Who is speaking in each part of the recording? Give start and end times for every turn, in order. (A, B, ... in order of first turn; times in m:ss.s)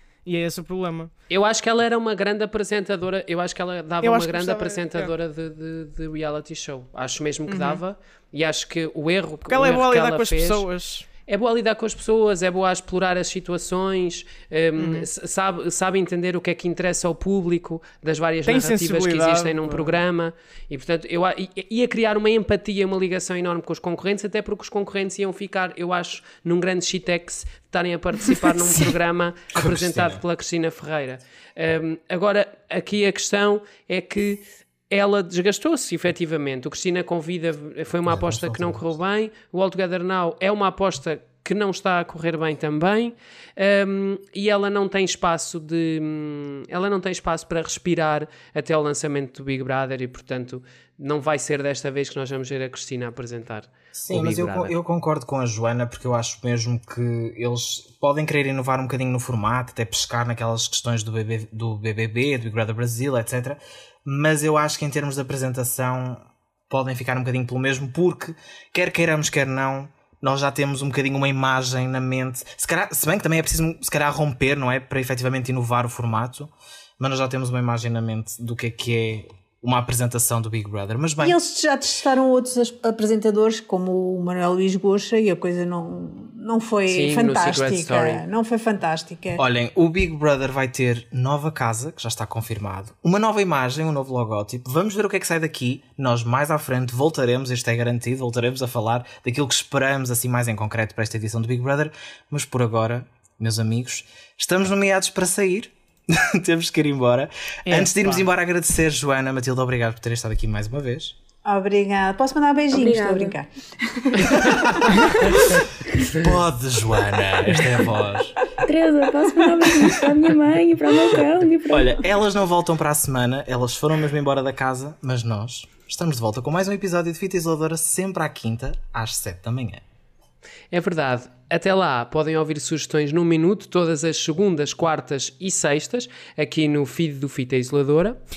0:00.2-0:01.1 A
0:01.3-0:10.7 B
0:04.0-0:05.1 A
0:07.5-0:07.8 A
0:09.5-0:11.1 A
0:11.2-0:54.8 B
0:14.8-0:15.1 A
0:18.4-0:20.0 A
0:28.5-0:28.8 C
0:29.5-0:30.2 C
0:38.0-0:38.8 C
0:53.9-1:21.4 C
1:21.2-1:29.4 D
1:26.9-1:28.2 B
1:29.4-1:51.2 C
1:47.6-1:48.3 A
1:51.4-1:53.5 D
1:52.7-1:53.4 E
1:54.0-1:55.4 D
1:54.3-1:55.4 C
1:56.1-1:58.4 C
1:58.6-2:02.1 E
1:59.7-2:00.1 C
2:00.9-2:09.8 C
2:10.7-2:18.2 B